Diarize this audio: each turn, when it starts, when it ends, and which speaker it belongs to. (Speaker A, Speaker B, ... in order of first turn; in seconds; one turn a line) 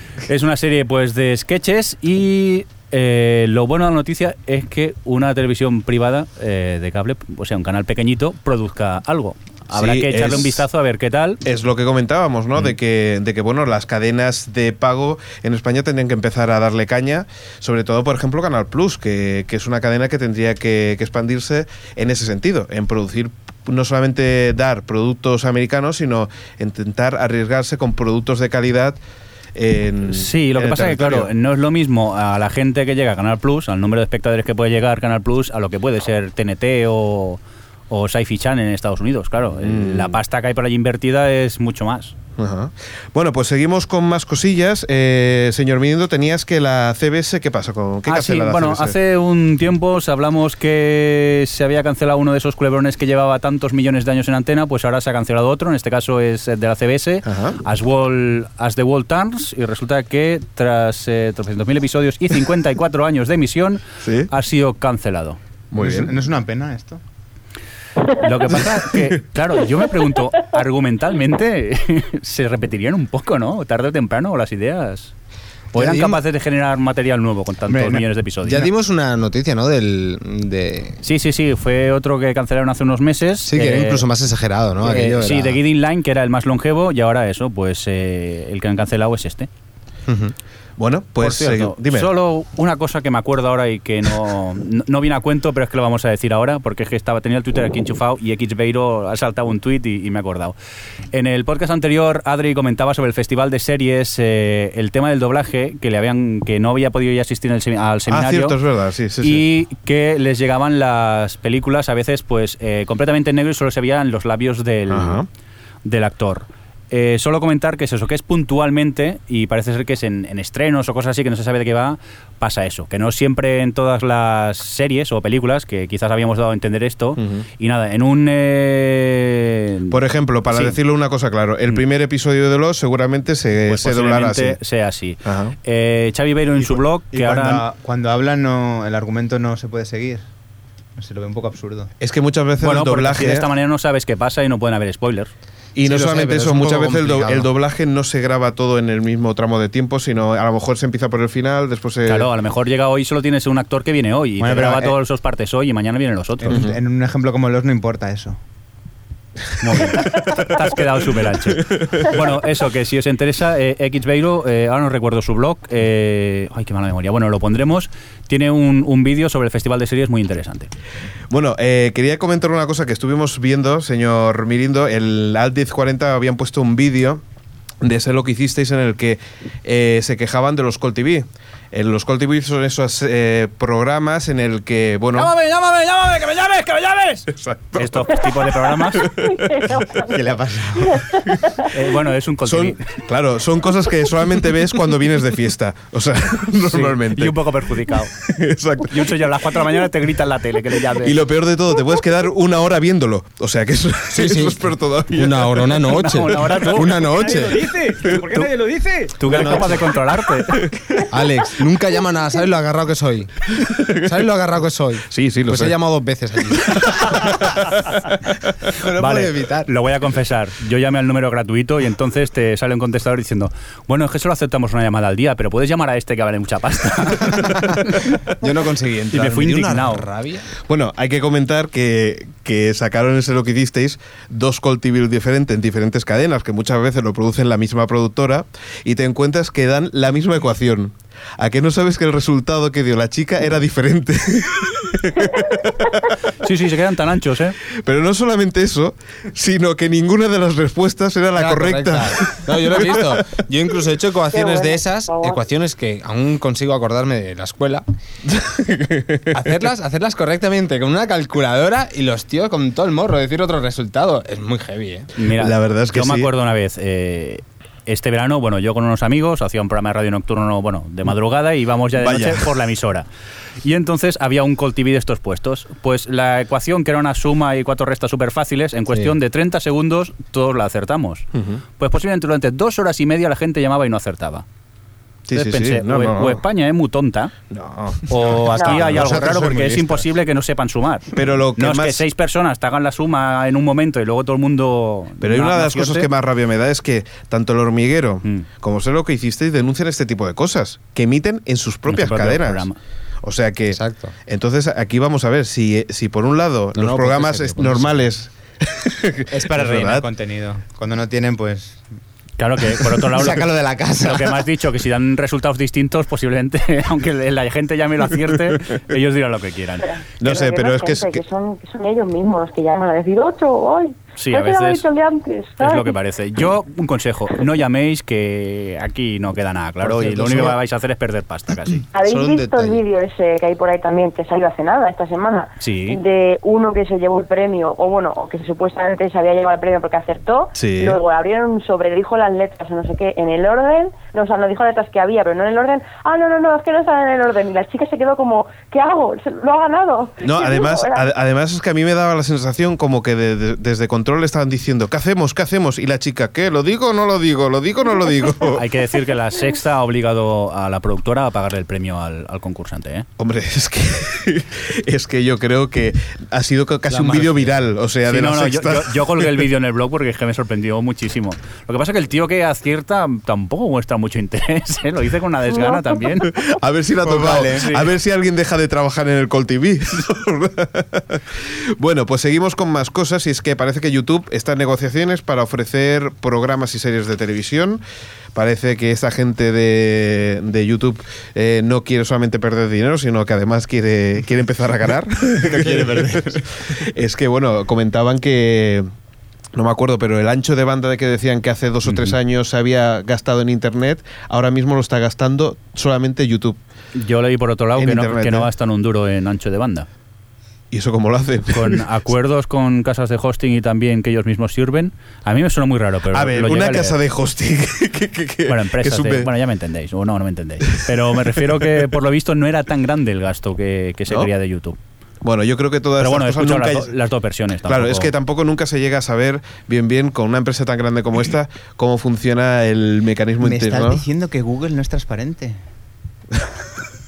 Speaker A: 0.3-11.4
Speaker B: 9.7-10.6
Speaker B: 11.4-29.0
Speaker B: 29.6-31.3
Speaker A: 30.1-42.1
Speaker B: 39.5-40.1
Speaker B: 42.4-48.9
Speaker A: 48.0-65.4
Speaker B: 57.3-57.6
Speaker B: 64.0-64.3
Speaker B: 65.7-66.1
Speaker C: 65.8-67.0
Speaker A: 68.1-75.1
Speaker A: 75.7-78.7
Speaker D: 75.7-76.2
Speaker C: 77.7-78.0
Speaker D: 78.4-81.0
Speaker A: 81.0-84.0
Speaker D: 83.4-85.6
Speaker A: 84.8-89.5
Speaker D: 90.1-90.3
Speaker B: 90.8-92.1
Speaker A: 91.2-100.5
Speaker A: 101.1-108.6
Speaker B: 108.1-109.4
Speaker A: 109.2-115.2
Speaker B: 114.9-115.3
Speaker A: 115.8-130.8
Speaker B: 127.2-127.4
Speaker B: 129.9-134.6
Speaker A: 133.7-137.6
Speaker B: 135.2-135.6
Speaker C: 136.6-140.3
Speaker C: 140.9-141.9
Speaker B: 142.0-143.4
Speaker A: 142.6-145.3
Speaker B: 145.8-152.3
Speaker D: 145.8-147.5
Speaker A: 152.1-156.7
Speaker C: 154.4-155.0
Speaker C: 156.4-158.4
Speaker B: 156.5-156.8
Speaker A: 159.6-170.7
Speaker B: 160.0-160.5
Speaker B: 161.6-162.2
Speaker B: 171.3-177.2
Speaker B: 177.8-185.3
Speaker A: 185.1-189.1
Speaker B: 187.3-189.8
Speaker E: 189.4-190.0
Speaker C: 190.0-191.1
Speaker A: 191.7-192.8
Speaker B: 192.4-197.4
Speaker A: 196.6-198.1
Speaker B: 198.2-199.1
Speaker A: 198.9-201.2
Speaker B: 201.0-206.6
Speaker D: 204.1-207.6
Speaker A: 205.9-207.2
Speaker F: 207.0-209.3
Speaker A: 209.2-210.7
Speaker D: 209.2-209.9
Speaker D: 211.1-213.3
Speaker B: 213.5-214.2
Speaker D: 214.0-217.3
Speaker B: 215.1-215.8
Speaker B: 216.6-218.1
Speaker D: 218.7-219.7
Speaker A: 218.9-227.8
Speaker D: 228.4-230.5
Speaker A: 229.1-230.1
Speaker B: 230.6-246.1
Speaker A: 246.4-247.6
Speaker B: 247.8-253.4
Speaker D: 251.4-257.8
Speaker E: 254.3-255.4
Speaker B: 258.3-259.6
Speaker D: 259.3-265.1
Speaker A: 265.2-273.1
Speaker B: 265.4-266.3
Speaker B: 272.0-272.5
Speaker A: 273.6-281.3
Speaker B: 281.3-281.6
Speaker A: 281.8-284.4
Speaker B: 285.3-286.4
Speaker A: 285.3-287.3
Speaker B: 287.5-289.7
Speaker A: 288.1-296.1
Speaker E: 288.6-288.8
Speaker C: 288.9-290.0
Speaker B: 291.1-292.0
Speaker B: 295.2-302.7
Speaker A: 301.9-302.8
Speaker B: 303.2-310.1
Speaker D: 303.7-304.1
Speaker D: 306.7-308.0
Speaker C: 309.3-311.8
Speaker A: 312.4-319.9
Speaker C: 312.8-314.4
Speaker E: 319.8-325.9
Speaker B: 320.2-321.2
Speaker A: 324.2-324.8
Speaker A: 325.6-331.8
Speaker D: 329.9-330.5
Speaker E: 331.9-351.1
Speaker D: 332.0-332.8
Speaker A: 335.6-336.0
Speaker B: 340.6-341.0
Speaker B: 350.2-358.6
Speaker A: 358.6-363.1
Speaker B: 363.2-369.5
Speaker D: 366.9-367.5
Speaker A: 368.1-376.3
Speaker E: 375.5-375.8
Speaker B: 376.2-387.8
Speaker C: 377.0-377.7
Speaker A: 377.5-377.9
Speaker B: 388.3-398.9
Speaker C: 395.4-396.4
Speaker B: 399.6-406.6
Speaker A: 401.9-402.1
Speaker A: 406.9-409.9
Speaker B: 407.8-408.5
Speaker B: 410.7-411.8
Speaker A: 411.5-417.0
Speaker B: 416.1-419.3
Speaker A: 418.5-424.8
Speaker B: 425.2-426.9
Speaker A: 426.0-428.1
Speaker B: 427.6-434.0
Speaker C: 433.4-435.6